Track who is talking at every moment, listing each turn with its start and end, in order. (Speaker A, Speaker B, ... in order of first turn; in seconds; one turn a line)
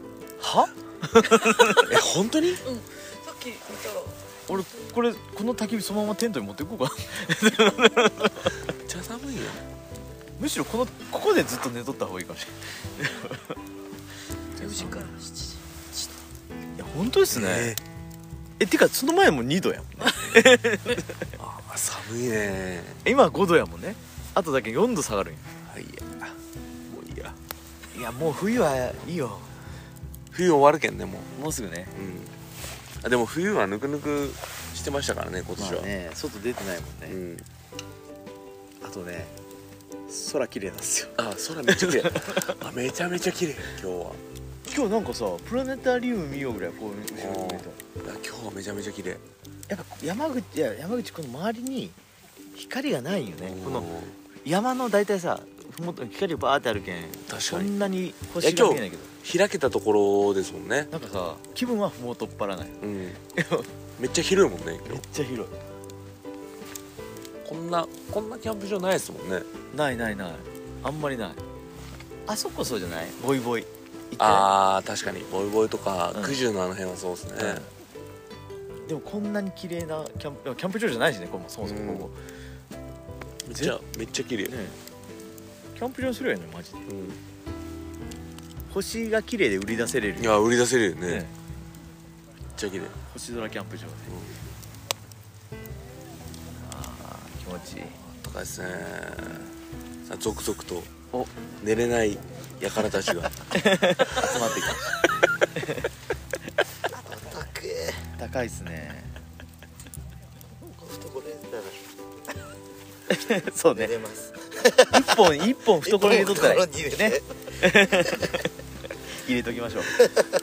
Speaker A: 0.4-1.9
Speaker B: 1.3-1.8
Speaker C: 1.8-2.6
Speaker B: 2.6-4.5
Speaker A: 4.5-8.6
Speaker C: 8.8-9.6
Speaker A: 10.4-13.6
Speaker B: 14.6-16.2
Speaker A: 14.6-15.1
Speaker A: 16.8-17.8
Speaker C: 17.3-17.8
Speaker A: 18.6-21.3
Speaker C: 21.4-23.0
Speaker A: 23.0-25.5
Speaker C: 25.6-27.4
Speaker A: 27.9-29.5
Speaker C: 30.3-31.3
Speaker A: 31.4-31.9
Speaker C: 31.9-32.4
Speaker C: 33.0-35.9
Speaker A: 35.6-37.2
Speaker C: 37.1-37.5
Speaker A: 38.8-39.3
Speaker A: 40.1-42.4
Speaker C: 41.2-44.2
Speaker A: 44.7-47.8
Speaker C: 47.1-49.2
Speaker A: 49.7-52.0
Speaker A: 52.5-53.9
Speaker C: 53.4-54.2
Speaker A: 54.4-59.1
Speaker C: 57.3-57.7
Speaker C: 58.4-60.9
Speaker A: 60.9-62.8
Speaker C: 62.8-63.2
Speaker A: 63.4-63.7
Speaker C: 64.0-65.0
Speaker A: 64.8-65.5
Speaker C: 67.5-69.5
Speaker A: 69.7-71.4
Speaker A: 72.3-74.5
Speaker C: 74.2-77.7
Speaker A: 76.1-76.4
Speaker A: 77.4-77.7
Speaker A: 78.9-82.2
Speaker C: 81.6-82.1
Speaker C: 83.5-84.5
Speaker A: 84.5-84.8
Speaker A: 85.8-86.9
Speaker C: 86.9-87.2
Speaker A: 88.7-90.4
Speaker C: 90.2-91.3
Speaker A: 91.1-91.3
Speaker C: 92.5-93.0
Speaker A: 93.1-94.2
Speaker A: 96.6-98.0
Speaker C: 98.0-99.5
Speaker C: 100.1-100.9
Speaker C: 101.6-103.5
Speaker A: 103.5-105.0
Speaker C: 104.1-104.3
Speaker A: 105.6-105.8
Speaker D: 107.0-108.0
Speaker A: 108.2-109.2
Speaker D: 110.7-111.8
Speaker A: 113.1-114.0
Speaker D: 113.8-115.0
Speaker A: 114.9-118.5
Speaker D: 115.8-117.2
Speaker A: 119.2-120.0